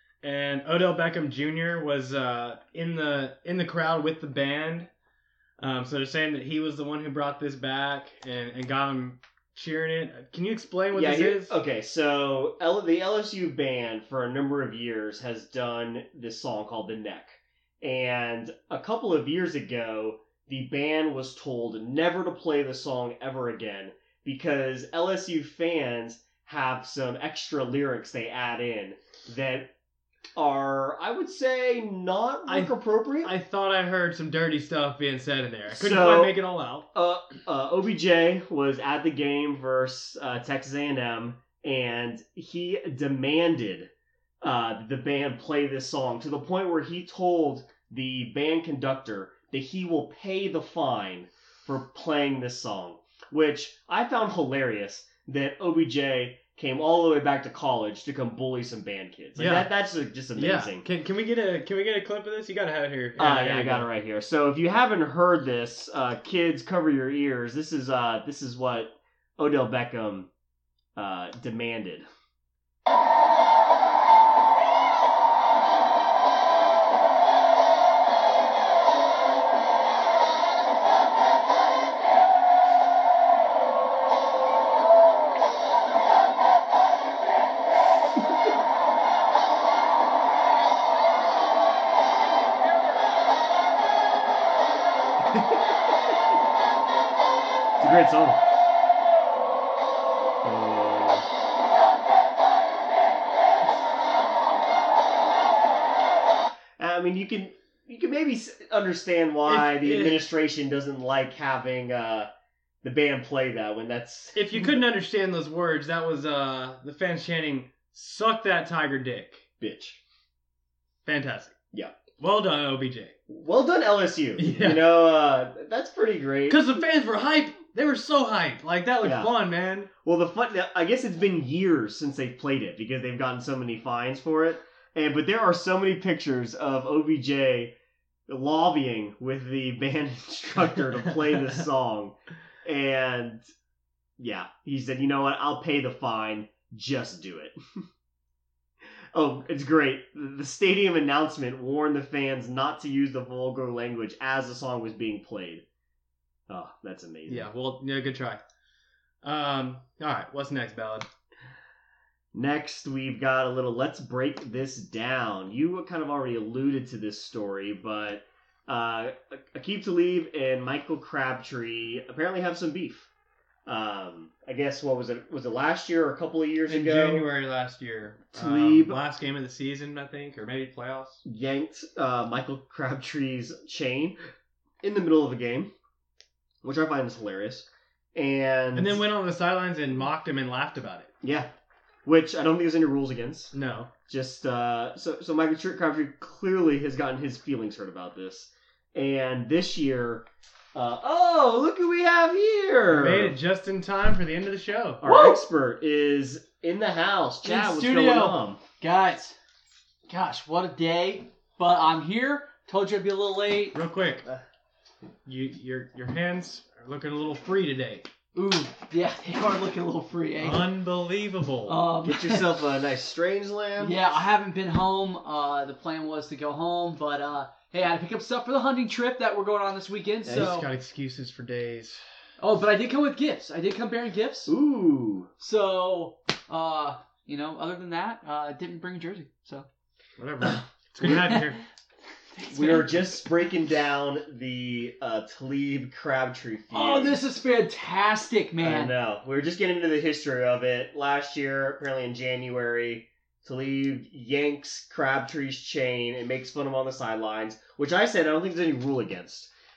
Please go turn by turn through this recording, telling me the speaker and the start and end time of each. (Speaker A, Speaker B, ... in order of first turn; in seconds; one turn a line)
Speaker A: 0.2-4.9
Speaker A: 5.6-11.6
Speaker B: 10.9-29.7
Speaker B: 30.3-33.4
Speaker A: 32.5-36.9
Speaker B: 35.7-36.4
Speaker B: 36.9-60.9
Speaker A: 59.4-59.7
Speaker A: 60.3-63.9
Speaker B: 63.2-70.3
Speaker B: 70.9-72.1
Speaker B: 95.2-96.2
Speaker B: 97.8-98.4
Speaker B: 100.4-101.2
Speaker B: 106.8-112.3
Speaker A: 109.5-110.3
Speaker B: 112.8-114.7
Speaker A: 114.3-119.5
Speaker B: 119.6-120.0
Speaker A: 121.0-121.5
Speaker A: 122.2-123.2
Speaker B: 123.3-126.8
Speaker A: 124.4-124.9
Speaker A: 126.5-129.9
Speaker B: 129.0-129.3
Speaker B: 130.0-137.8
Speaker B: 138.3-143.5
Speaker B: 144.2-147.6
Speaker B: 149.1-155.6
Speaker B: 156.5-157.5
Speaker A: 157.3-158.4
Speaker A: 159.2-161.1
Speaker B: 162.3-173.1
Speaker B: 173.7-177.3
Speaker A: 176.7-181.2
Speaker B: 178.3-179.0
Speaker B: 181.2-184.2
Speaker B: 184.8-185.7
Speaker B: 186.6-189.0
Speaker A: 188.7-191.1
Speaker B: 191.2-191.5
Speaker B: 192.0-193.5
Speaker A: 193.5-193.9
Speaker B: 194.1-203.3
Speaker A: 202.9-205.0
Speaker B: 205.0-208.6
Speaker C: 205.0-205.4
Speaker C: 207.4-209.3
Speaker C: 210.1-213.8
Speaker A: 213.7-214.3
Speaker A: 215.2-218.1
Speaker C: 218.3-220.8
Speaker A: 220.4-221.8
Speaker C: 221.7-222.6
Speaker B: 222.0-224.0
Speaker C: 223.8-230.7
Speaker A: 230.3-232.0
Speaker C: 232.4-234.5
Speaker B: 234.4-235.3
Speaker C: 235.4-239.7
Speaker A: 240.2-241.6
Speaker C: 241.0-241.4
Speaker C: 242.3-243.2
Speaker B: 242.5-247.2
Speaker C: 246.7-248.9
Speaker B: 248.6-259.5